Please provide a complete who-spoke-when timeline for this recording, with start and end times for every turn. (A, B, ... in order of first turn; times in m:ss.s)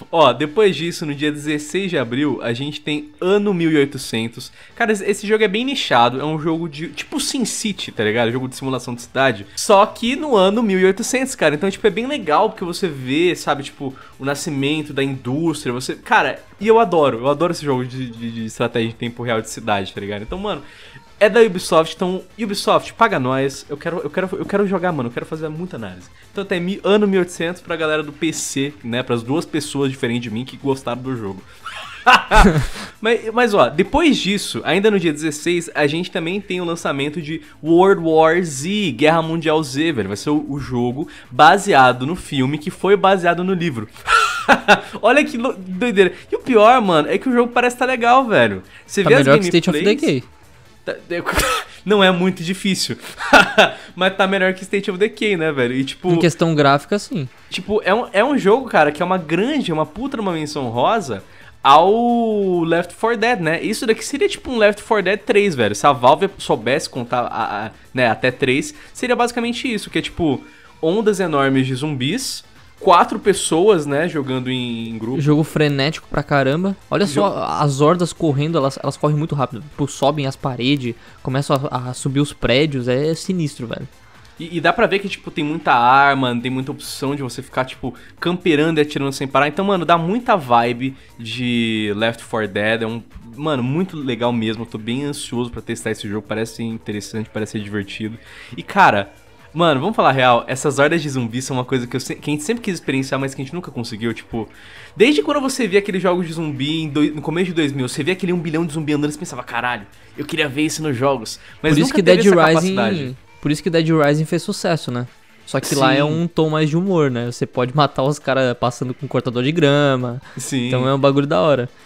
0:00.1-0:20.6 A
0:21.2-0:50.1 A
0:49.0-0:50.3 B
0:50.9-0:56.3 A
0:56.1-0:57.3 B
0:57.5-1:15.4 A
1:15.1-1:23.9 B
1:24.4-1:53.1 A
1:51.7-2:01.7 B
1:55.6-1:56.2 A
2:00.4-2:00.9 A